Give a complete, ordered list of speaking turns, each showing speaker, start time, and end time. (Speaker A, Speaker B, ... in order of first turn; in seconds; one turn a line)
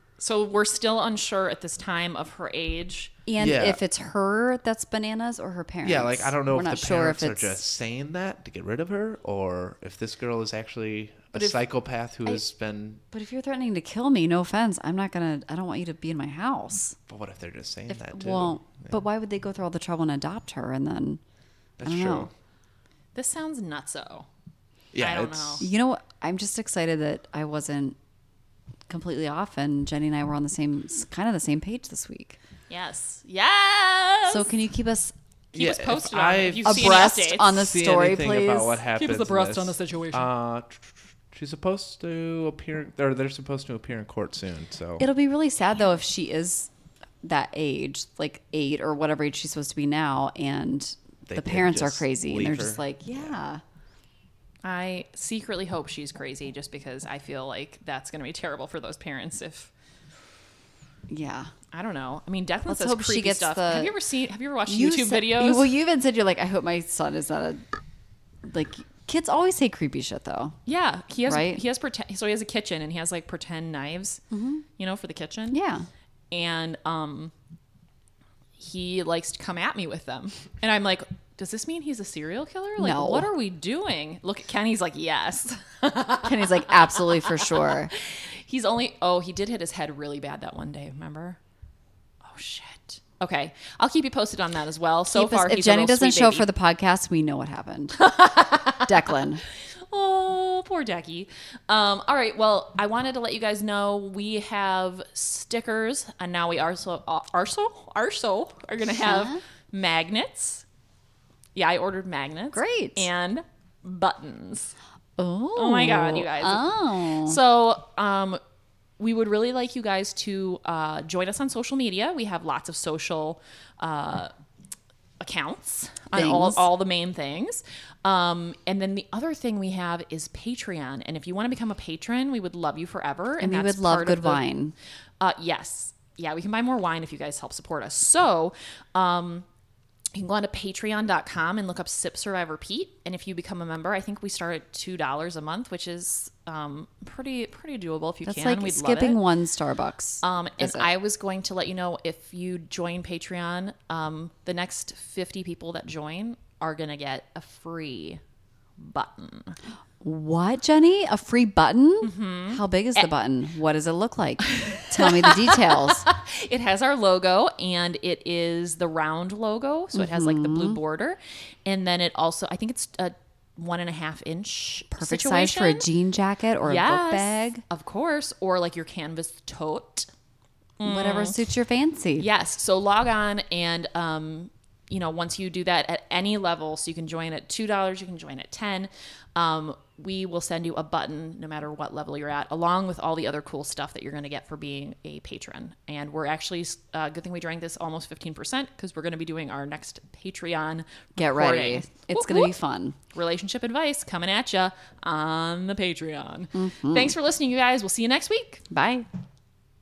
Speaker A: 0.2-3.2
Speaker B: 3.3-7.6
Speaker C: 3.4-3.8
Speaker C: 5.8-13.0
Speaker A: 11.3-11.6
Speaker B: 13.1-17.0
Speaker C: 17.1-19.0
Speaker B: 17.9-21.2
Speaker C: 21.8-22.3
Speaker B: 21.8-22.3
Speaker A: 23.1-24.3
Speaker C: 24.9-25.6
Speaker A: 25.0-25.7
Speaker B: 25.6-28.0
Speaker B: 28.9-32.4
Speaker A: 32.7-34.5
Speaker B: 34.3-35.1
Speaker A: 35.5-37.6
Speaker C: 35.5-45.1
Speaker B: 36.6-38.9
Speaker A: 38.9-40.3
Speaker B: 45.0-46.7
Speaker B: 47.2-53.6
Speaker C: 51.3-53.3
Speaker A: 54.6-59.7
Speaker B: 61.1-61.5
Speaker A: 61.7-65.7
Speaker B: 62.7-64.0
Speaker B: 64.7-67.6
Speaker B: 68.4-70.6
Speaker A: 70.7-74.2
Speaker B: 71.3-71.6
Speaker B: 74.3-74.7
Speaker A: 74.8-75.6
Speaker B: 75.5-75.9
Speaker A: 76.3-77.3
Speaker A: 78.6-91.4
Speaker B: 82.8-83.3
Speaker B: 86.2-87.9
Speaker A: 92.2-96.5
Speaker B: 95.1-98.2
Speaker A: 98.0-98.9
Speaker B: 98.8-99.4
Speaker A: 99.9-110.6
Speaker B: 109.0-109.4
Speaker A: 111.5-114.7
Speaker B: 112.5-113.1
Speaker B: 115.2-117.4
Speaker A: 115.6-118.4
Speaker A: 119.0-124.3
Speaker A: 125.2-134.4
Speaker B: 126.1-126.6
Speaker B: 133.4-134.7
Speaker A: 135.2-139.5
Speaker A: 140.2-149.2
Speaker B: 148.3-150.9
Speaker A: 150.2-158.2
Speaker A: 158.8-159.6
Speaker B: 160.0-166.1
Speaker A: 162.0-163.1
Speaker A: 164.5-175.9
Speaker B: 169.9-170.8
Speaker B: 174.9-177.6
Speaker A: 176.6-180.1
Speaker A: 180.8-181.4
Speaker B: 180.8-182.3
Speaker A: 182.2-202.5
Speaker B: 201.2-203.0
Speaker A: 203.1-208.6
Speaker B: 206.6-207.2
Speaker B: 208.7-209.1